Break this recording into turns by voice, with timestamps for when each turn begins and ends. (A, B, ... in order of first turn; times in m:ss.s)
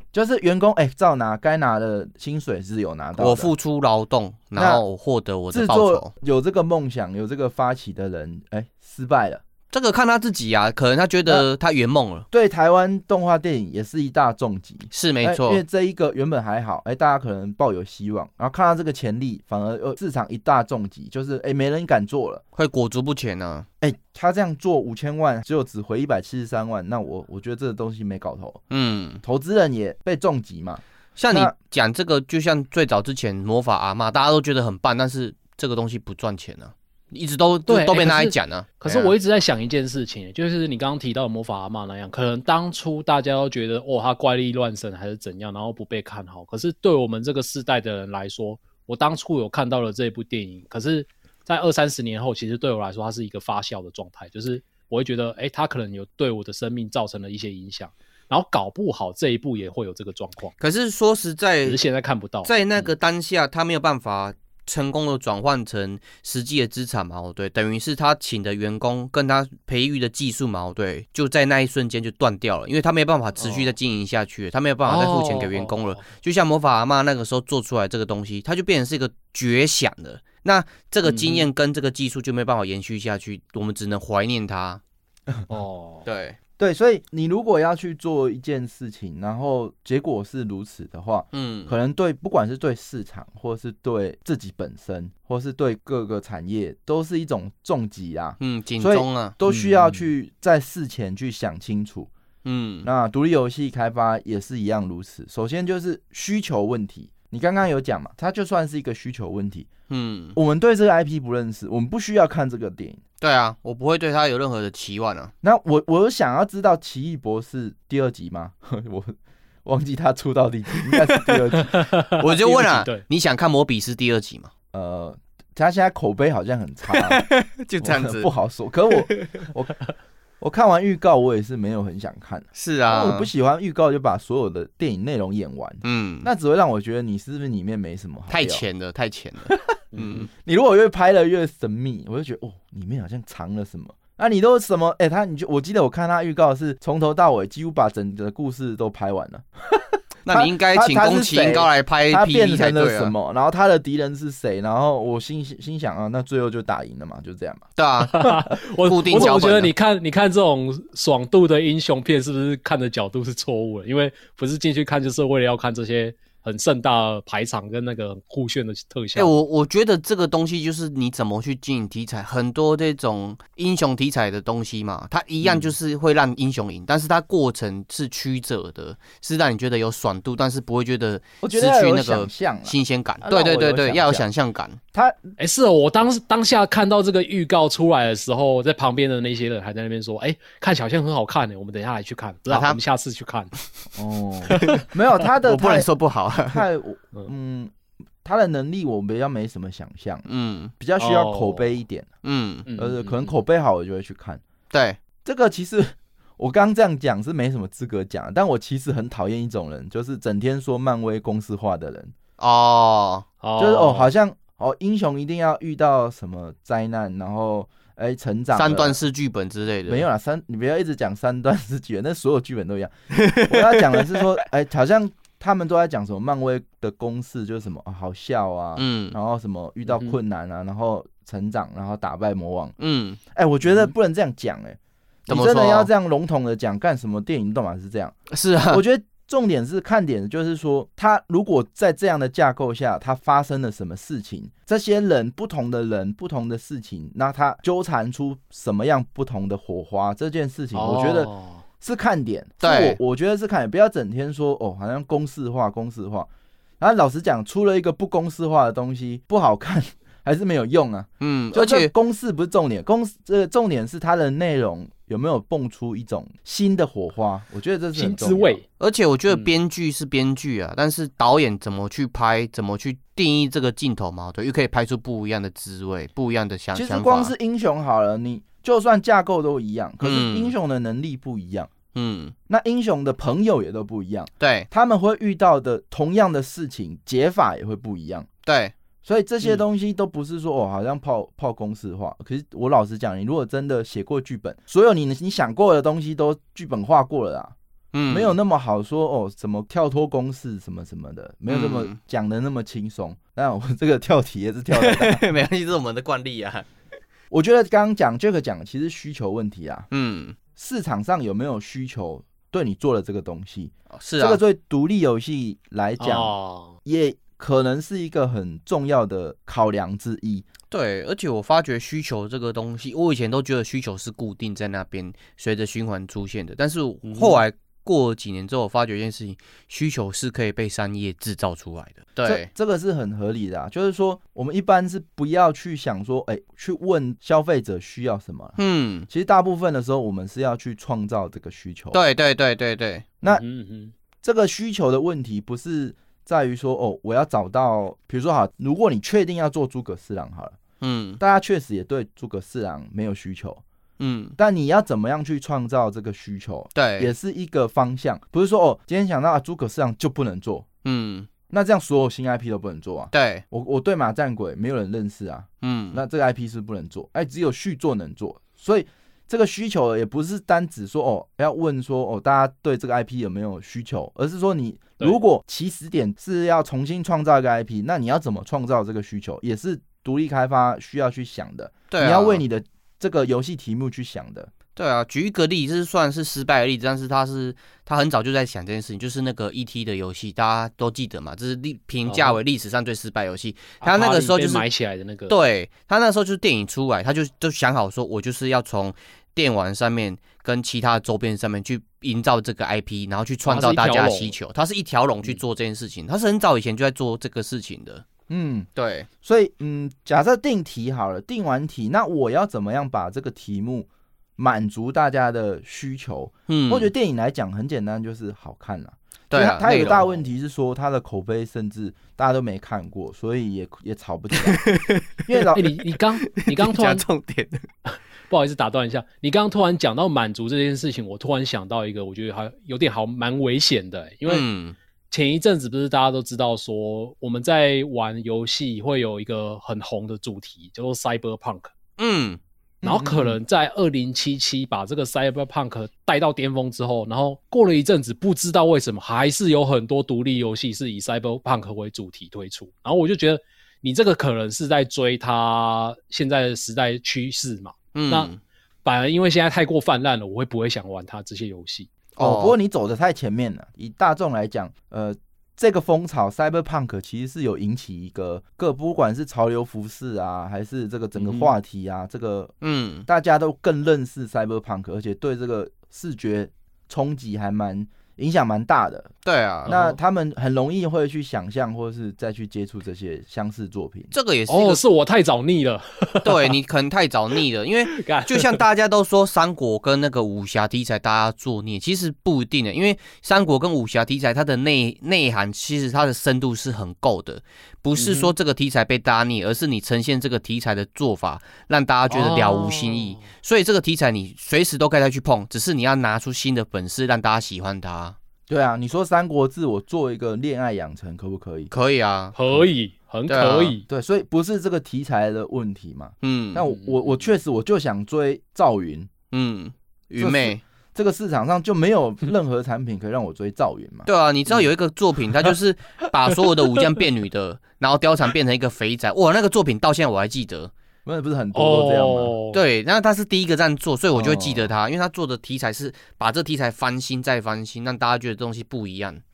0:00.1-0:03.5 A
0:03.2-0:06.1 B
0:04.6-0:04.8 A
0:05.5-0:09.4 A
0:09.7-0:12.3 B
0:12.3-0:22.4 A
0:14.9-0:15.6 B
0:22.6-0:23.7 B
0:23.8-0:28.6 A
0:28.7-0:29.2 B
0:29.2-0:31.5 A
0:31.2-0:39.1 B
0:37.7-1:00.6 C
1:00.6-1:01.8 B
1:01.6-1:02.9 C
1:02.4-1:24.8 B
1:13.4-1:13.7 C
1:14.9-1:16.0 C
1:21.1-1:21.5 C
1:25.5-1:26.1 C
1:26.0-1:26.4 B
1:26.6-1:42.1 A
1:31.3-1:31.8 B
1:38.4-1:39.4 B
1:39.5-1:40.0 C
1:42.4-1:42.9 B
1:42.8-1:49.7 A
1:49.9-1:50.4 B
1:50.4-1:53.0 A
1:53.2-1:55.3 B
1:55.4-2:01.8 A
2:00.9-2:01.3 B
2:01.6-2:03.0 C
2:02.1-2:04.5 B
2:04.7-2:07.2 A
2:06.9-2:08.3 B
2:07.8-2:09.8 A
2:08.9-2:09.4 B
2:10.4-2:18.6 A
2:12.6-2:13.3 B
2:15.8-2:16.3 B
2:18.3-2:20.3 B
2:19.9-2:20.3 C
2:20.3-2:37.6 A
2:30.3-2:33.1 B
2:37.8-2:39.7 B
2:38.0-2:49.4 C
2:49.2-3:04.8 B
3:01.4-3:04.3 A
3:04.9-3:05.3 A
3:05.4-3:13.5 C
3:12.5-3:12.8 B
3:14.0-3:15.9 A
3:14.5-3:16.6 B
3:16.5-3:20.2 A
3:20.3-3:20.7 B
3:20.8-3:22.1 A
3:21.0-3:21.8 C
3:22.2-3:22.7 B
3:22.7-3:23.3 C
3:22.8-3:24.4 A
3:24.7-3:25.0 B
3:25.2-3:32.2 A
3:32.4-3:33.3 B
3:33.4-3:34.1 C
3:33.6-3:39.0 A
3:38.5-3:40.1 B
3:39.9-3:52.8 A
3:43.2-3:44.3 B
3:48.8-3:49.2 B
3:49.9-3:50.2 C
3:52.8-3:53.2 B
3:53.3-3:58.2 A
3:53.7-3:53.9 C
3:55.3-3:55.9 B
3:58.3-3:58.8 B
3:58.7-4:16.3 A
4:10.7-4:11.6 C
4:12.6-4:13.0 B
4:16.8-4:28.6 A
4:21.2-4:21.9 B
4:28.0-4:28.6 C
4:28.8-4:37.3 B
4:36.8-4:41.7 A
4:40.0-4:40.5 B
4:41.9-4:42.3 B
4:42.5-4:48.3 A
4:44.4-4:44.7 B
4:48.4-4:48.7 B
4:49.0-4:57.6 A
4:57.9-4:58.4 B
4:58.1-5:05.2 A
5:01.5-5:02.0 B
5:04.7-5:06.7 B
5:07.3-5:09.9 A
5:09.9-5:10.4 B
5:10.6-5:16.3 A
5:13.9-5:14.4 B
5:16.0-5:16.8 C
5:16.8-5:20.5 A
5:20.7-5:32.5 B
5:27.0-5:27.4 C
5:32.2-5:38.6 A
5:38.6-5:39.1 B
5:39.1-5:42.0 A
5:41.9-5:43.1 B
5:43.2-5:43.9 C
5:44.2-5:50.6 A
5:50.8-5:51.2 B
5:51.2-5:53.6 A
5:54.0-5:54.4 B
5:54.4-6:00.7 A
5:56.8-5:57.1 B
6:00.8-6:01.3 B
6:01.5-6:24.5 A
6:03.1-6:03.4 B
6:05.6-6:06.0 B
6:21.9-6:22.4 B
6:24.8-6:34.6 B
6:32.1-6:32.4 C
6:33.8-6:35.4 C
6:35.3-6:48.1 B
6:43.5-6:44.4 C
6:48.3-6:48.7 A
6:48.8-6:49.1 B
6:49.2-7:04.6 A
6:56.5-6:56.9 B
6:59.3-7:00.0 B
6:59.8-7:00.2 C
7:04.4-7:05.5 B
7:05.3-7:05.6 A
7:05.5-7:07.1 C
7:06.2-7:07.7 B
7:07.9-7:14.5 C
7:14.3-7:14.8 B
7:15.1-7:21.7 C
7:22.0-7:22.4 B
7:22.8-7:23.4 A
7:22.8-7:38.3 C
7:37.9-7:38.4 B
7:38.8-7:41.9 C
7:42.2-7:42.6 B
7:42.2-7:52.5 A
7:51.2-7:51.5 C
7:52.6-7:53.1 B
7:53.1-7:59.1 A
7:59.2-7:59.7 B
7:59.7-8:00.0 C
7:59.7-8:04.1 A
8:04.1-8:04.8 B
8:04.5-8:06.5 C
8:06.2-8:28.2 B
8:07.9-8:08.6 C
8:18.0-8:18.3 C
8:22.1-8:23.3 C
8:28.5-8:31.7 A
8:31.7-8:32.4 B
8:32.3-8:33.8 C
8:33.3-8:33.8 B
8:33.9-8:39.1 A
8:36.2-8:36.6 B
8:36.7-8:37.3 C
8:39.3-8:40.6 B
8:40.2-8:44.1 A
8:44.1-8:50.7 B
8:51.1-8:52.3 A
8:51.5-8:52.6 C
8:52.5-8:59.2 B
8:54.2-8:54.7 A